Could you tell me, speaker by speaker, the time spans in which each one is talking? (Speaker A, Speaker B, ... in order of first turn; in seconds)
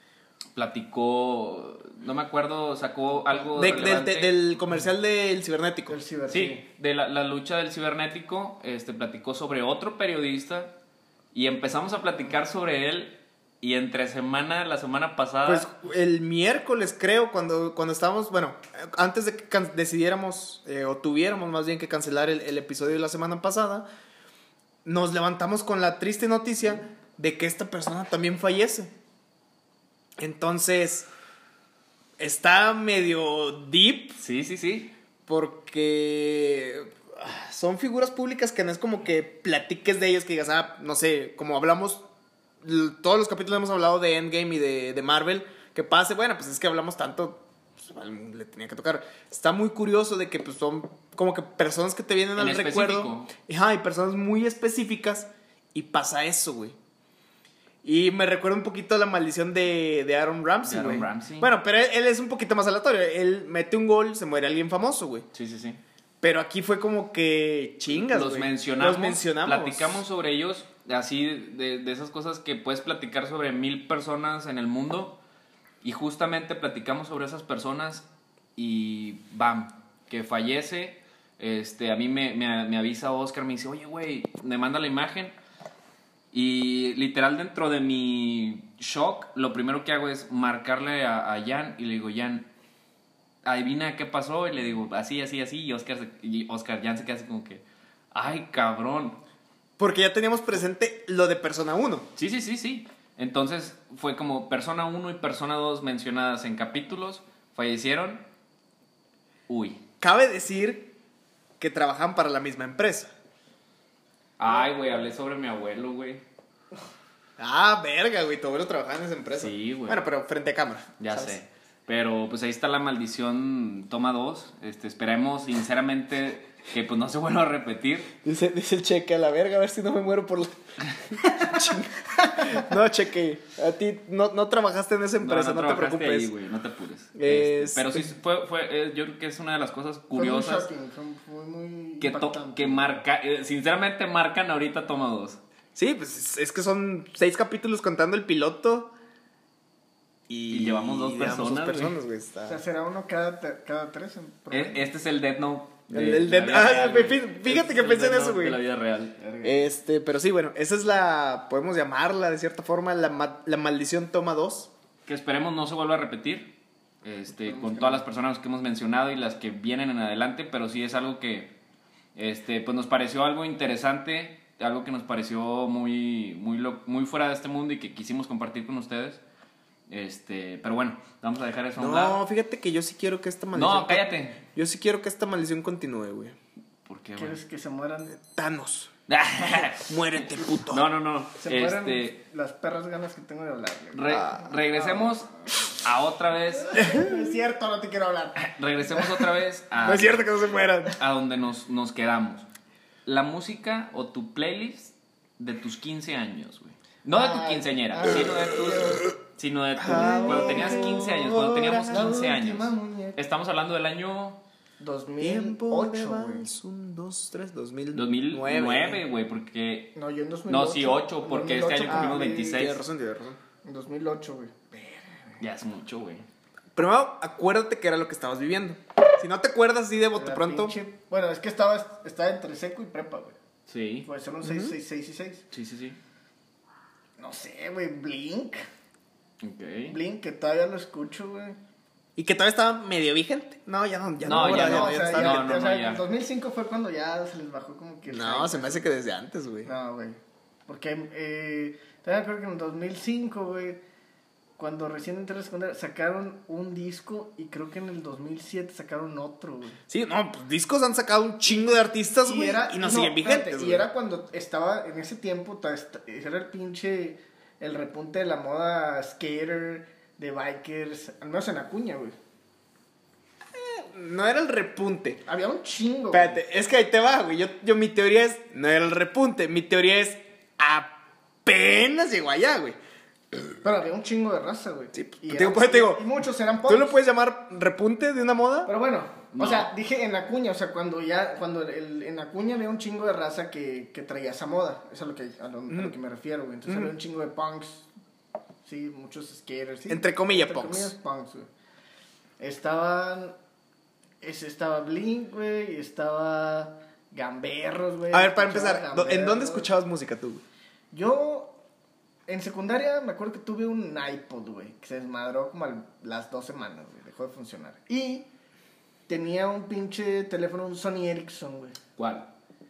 Speaker A: 0.6-4.4, 6.3-10.8, 11.3-15.7, 34.2-34.9, 52.4-53.3, 60.6-61.5, 65.3-65.8, 68.0-75.2, 75.8-85.4, 86.3-92.5, 93.5-99.2, 102.2-108.2, 109.5-109.8, 114.4-116.2, 119.4-120.1, 121.0-128.1, 135.2-140.7, 142.0-145.4, 150.5-152.0, 154.5-159.2, 165.1-171.5, 172.2-179.2, 179.9-182.2, 183.5-184.4, 186.9-187.4, 189.1-192.2, 193.9-196.9, 198.4-200.3, 201.0-202.5, 203.1-214.4, 217.9-219.9, 220.5-222.8, 225.4-226.3, 233.7-234.1, 235.5-236.0, 239.4-240.0, 244.2-246.0, 289.3-289.7, 322.0-322.3
Speaker B: 3.5-6.0, 15.5-23.9, 24.9-28.9, 30.2-31.1, 32.2-34.2, 35.3-42.0, 42.6-56.8, 57.8-65.3, 66.2-70.0, 99.8-102.1, 110.0-111.0, 111.6-113.1, 117.4-121.4, 128.2-136.3, 137.2-138.1, 145.8-148.9, 150.3-152.6, 155.9-158.6, 159.4-164.7, 181.8-186.4, 188.2-188.9, 189.8-190.8, 194.1-194.5, 196.8-197.3, 199.8-201.0, 208.1-208.3, 209.8-212.1, 215.2-219.0, 221.9-223.4, 226.8-230.8, 234.4-234.8, 242.2-245.5, 248.1-249.7, 259.9-263.9, 273.5-275.2, 276.1-282.8, 284.9-286.1, 286.7-288.7, 295.7-295.9, 296.7-296.9, 299.9-300.9, 308.1-310.4
Speaker C: 5.9-6.7, 132.2-132.6, 140.1-143.0, 152.5-154.9, 159.2-159.7, 167.5-168.0, 187.2-188.2, 191.4-195.1, 196.5-198.5, 207.1-209.0, 209.8-211.1, 211.9-213.2, 214.8-216.5, 219.9-222.6, 223.6-225.4, 230.2-233.4, 234.1-235.4, 237.2-238.6, 239.9-241.6, 244.3-248.9, 249.6-253.8, 254.6-259.8, 262.2-272.2, 275.3-276.4, 283.6-287.0, 288.7-297.9, 298.6-301.5, 302.4-303.4, 304.2-309.7, 310.9-311.6, 312.3-318.3, 319.1-321.8